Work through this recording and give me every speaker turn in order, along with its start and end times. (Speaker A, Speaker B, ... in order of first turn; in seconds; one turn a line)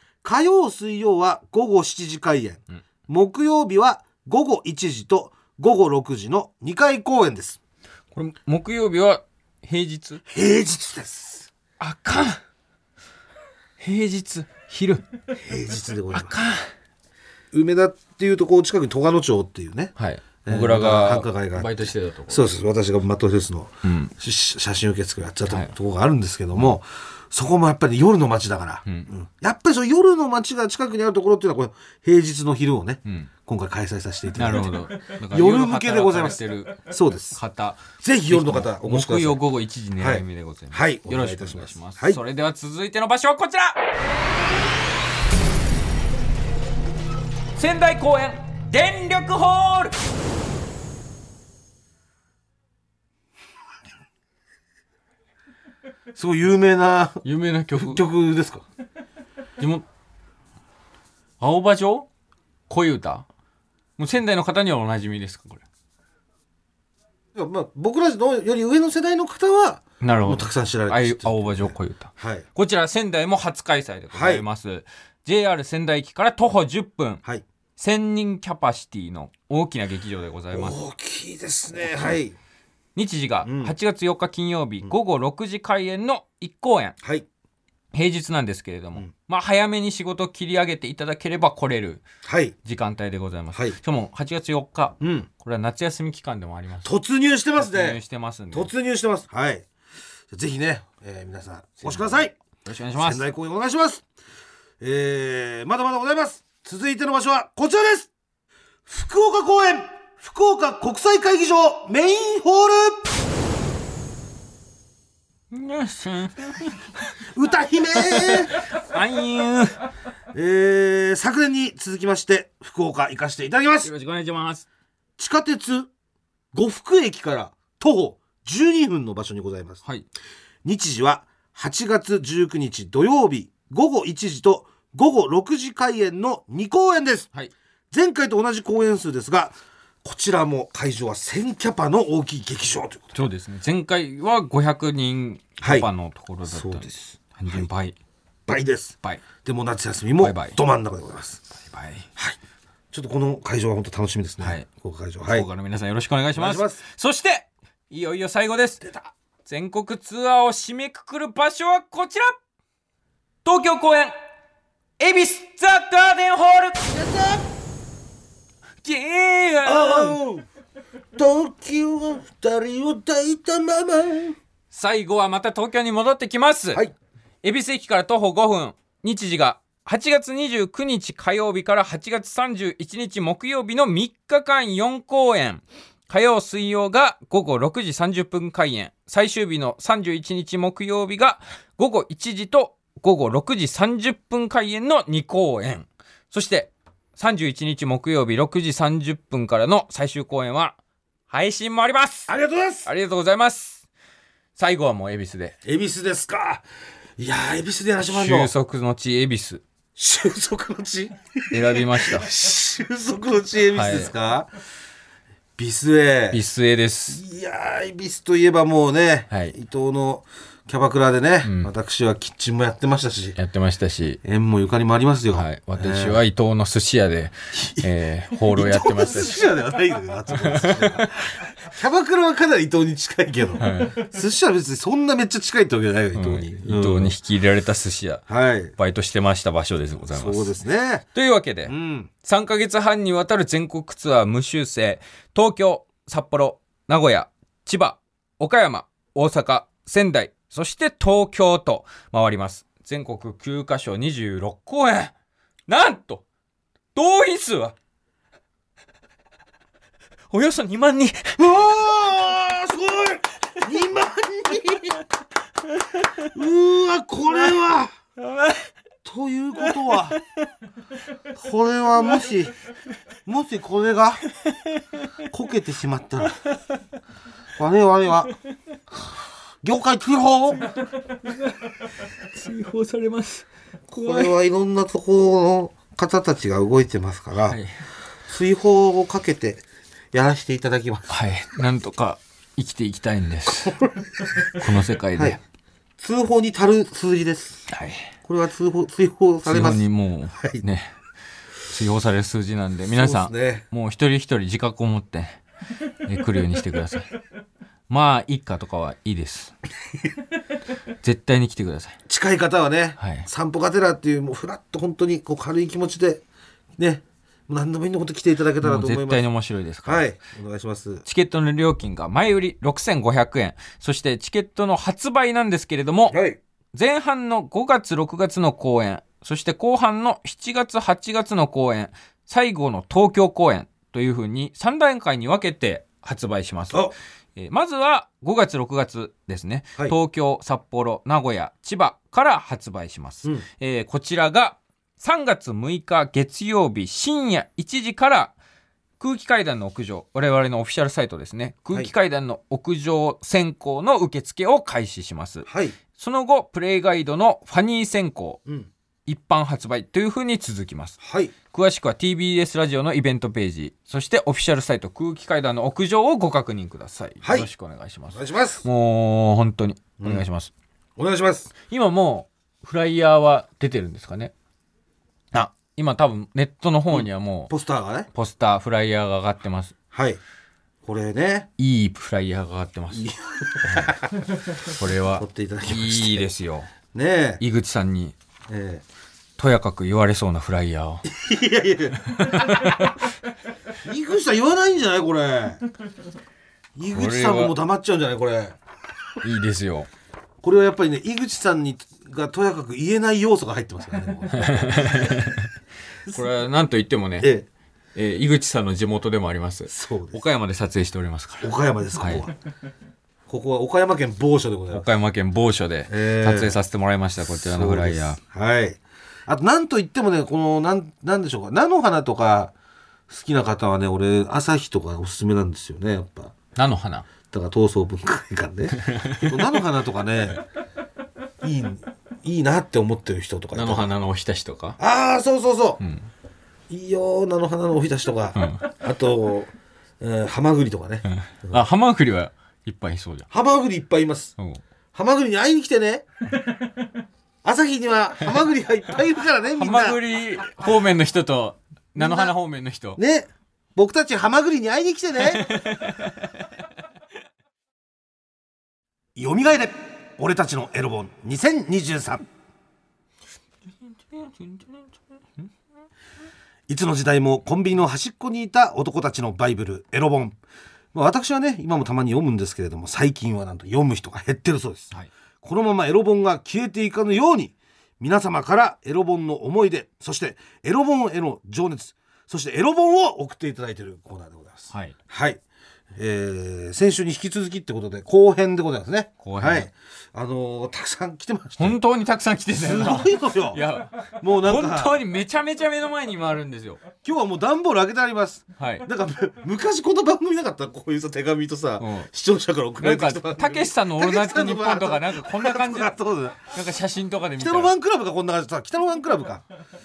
Speaker A: 0.2-7.6
Speaker B: 8.1-10.2
Speaker A: 10.3-11.5
Speaker B: 11.8-12.4
Speaker B: 13.8-15.1
Speaker A: 15.4-16.3
Speaker B: 16.1-16.7
Speaker A: 17.5-19.9
Speaker B: 20.0-22.5
Speaker A: 20.4-37.4
Speaker B: 23.8-24.1
Speaker B: 33.0-33.3
Speaker B: 34.3-43.8
Speaker A: 38.0-39.4
Speaker A: 40.0-42.2
Speaker B: 47.5-50.0
Speaker A: 56.1-57.2
Speaker B: 57.2-58.0
Speaker A: 57.8-58.6
Speaker B: 59.6-59.9
Speaker B: 61.4-62.1
Speaker B: 62.7-63.2
Speaker B: 64.0-65.6
Speaker A: 67.3-72.4
Speaker B: 70.0-77.2
Speaker A: 74.1-74.4
Speaker B: 77.8-80.8
Speaker A: 80.5-82.3
Speaker B: 81.8-82.2
Speaker B: 83.0-87.0
Speaker A: 83.4-83.7
Speaker B: 87.9-92.0
Speaker A: 92.2-92.5
Speaker B: 92.6-96.9
Speaker A: 95.0-95.3
Speaker A: 96.8-98.0
Speaker B: 97.6-98.7
Speaker A: 98.5-99.7
Speaker A: 100.3-102.3
Speaker B: 101.8-103.2
Speaker A: 103.0-104.0
Speaker A: 104.8-108.1
Speaker A: 108.9-113.1
Speaker B: 115.5-117.0
Speaker A: 117.3-118.5
Speaker B: 117.9-119.8
Speaker A: 120.3-123.9
Speaker B: 123.8-124.7
Speaker A: 125.2-125.9
Speaker A: 126.5-129.8
Speaker A: 130.6-137.3
Speaker A: 137.9-143.2
Speaker B: 143.1-148.0
Speaker A: 145.6-145.9
Speaker A: 146.5-147.7
Speaker A: 148.5-151.4
Speaker B: 150.2-150.6
Speaker B: 151.6-152.1
Speaker A: 152.9-155.5
Speaker B: 154.4-154.7
Speaker B: 155.2-158.8
Speaker A: 156.3-156.8
Speaker A: 158.8-159.1
Speaker B: 159.4-162.3
Speaker B: 163.4-164.1
Speaker B: 165.0-166.8
Speaker A: 166.8-167.5
Speaker B: 168.8-170.2
Speaker A: 169.6-170.5
Speaker A: 171.2-174.4
Speaker B: 174.7-176.8
Speaker B: 177.4-200.8
Speaker B: 201.3-202.3
Speaker A: 202.3-202.9
Speaker B: 202.8-203.8
Speaker B: 204.6-205.6
Speaker A: 205.6-206.6
Speaker A: 207.2-208.5
Speaker B: 208.0-209.6
Speaker A: 209.9-214.5
Speaker B: 211.5-212.3
Speaker B: 213.7-214.1
Speaker A: 215.6-216.4
Speaker B: 216.3-217.2
Speaker A: 217.1-223.4
Speaker B: 219.3-219.5
Speaker B: 221.4-221.7
Speaker B: 223.3-224.2
Speaker A: 224.2-226.2
Speaker B: 225.3-229.4
Speaker A: 227.5-237.1
Speaker B: 230.3-231.2
Speaker B: 233.6-234.0
Speaker B: 236.1-238.2
Speaker A: 238.3-238.7
Speaker B: 238.8-240.6
Speaker A: 240.1-241.1
Speaker B: 241.1-255.1
Speaker A: 241.7-242.1
Speaker B: 255.7-256.2
Speaker B: 256.9-257.7
Speaker B: 260.3-261.4
Speaker A: 261.4-265.0
Speaker B: 265.7-266.3
Speaker A: 266.2-267.9
Speaker B: 268.2-268.7
Speaker A: 269.0-270.2
Speaker B: 269.6-270.4
Speaker A: 271.3-272.5
Speaker A: 273.2-274.2
Speaker B: 274.4-275.1
Speaker A: 275.3-276.4
Speaker A: 277.6-278.3
Speaker A: 279.6-280.7
Speaker B: 281.1-281.7
Speaker B: 282.2-284.3
Speaker A: 283.9-287.6
Speaker B: 287.5-287.8
Speaker A: 288.3-291.1
Speaker B: 291.1-293.8
Speaker A: 293.6-294.4
Speaker B: 294.5-295.4
Speaker A: 296.0-297.6
Speaker B: 297.7-298.1
Speaker A: 298.2-299.8
Speaker B: 299.4-300.9
Speaker A: 300.4-300.6
Speaker B: 301.6-305.4
Speaker A: 302.9-303.6
Speaker B: 306.0-307.1
Speaker B: 307.9-309.5
Speaker B: 311.0-312.0
Speaker A: 312.1-316.2
Speaker B: 313.0-313.3
Speaker A: 316.8-319.2
Speaker B: 318.6-320.1
Speaker A: 319.8-321.0
Speaker B: 321.0-326.2
Speaker A: 326.1-326.4
Speaker B: 326.7-348.4
Speaker B: 349.0-358.4
Speaker A: 355.4-355.8
Speaker B: 359.1-361.0
Speaker A: 361.0-361.3
Speaker B: 361.5-370.5
Speaker A: 367.2-367.5
Speaker A: 368.1-368.6
Speaker A: 370.0-370.2
Speaker A: 371.0-371.5
Speaker B: 371.7-374.3
Speaker B: 375.3-377.5
Speaker A: 376.9-378.1
Speaker B: 378.1-379.7
Speaker A: 379.9-380.2
Speaker A: 380.8-381.5
Speaker B: 381.6-383.1
Speaker A: 382.9-386.3
Speaker B: 383.6-384.0
Speaker B: 384.6-386.7
Speaker A: 386.9-387.4
Speaker B: 387.4-388.1
Speaker A: 388.5-388.8
Speaker B: 389.4-391.1
Speaker A: 391.1-392.8
Speaker B: 392.0-393.1
Speaker A: 393.8-395.6
Speaker A: 396.8-398.6
Speaker B: 396.9-397.6
Speaker B: 399.2-399.9
Speaker A: 400.4-405.4
Speaker B: 404.3-405.5
Speaker B: 406.1-407.3
Speaker A: 407.2-407.5
Speaker B: 407.9-412.3
Speaker A: 409.7-410.2
Speaker A: 411.4-412.3
Speaker A: 413.3-414.9
Speaker B: 414.7-418.2
Speaker A: 415.9-416.6
Speaker A: 417.4-422.5
Speaker A: 423.1-426.3
Speaker B: 426.6-427.1
Speaker A: 427.3-430.4
Speaker B: 428.8-429.3
Speaker A: 431.4-433.9
Speaker B: 433.5-434.8
Speaker A: 434.8-435.8
Speaker B: 435.8-436.1
Speaker A: 436.7-441.6
Speaker B: 438.4-438.7
Speaker B: 441.1-443.3
Speaker A: 443.3-444.3
Speaker A: 444.9-446.1
Speaker A: 447.4-450.0
Speaker B: 449.5-453.0
Speaker A: 451.9-452.3
Speaker A: 453.0-455.6
Speaker B: 455.2-456.3
Speaker A: 459.1-462.2
Speaker B: 463.9-465.4
Speaker A: 466.7-470.4
Speaker A: 470.9-485.4
Speaker B: 484.7-484.9
Speaker A: 485.9-491.8
Speaker B: 489.2-489.7
Speaker B: 491.6-496.8
Speaker A: 492.6-495.0
Speaker A: 497.0-506.5
Speaker B: 498.6-498.9
Speaker B: 501.8-502.1
Speaker B: 502.8-505.9
Speaker B: 506.5-507.7
Speaker A: 507.4-509.4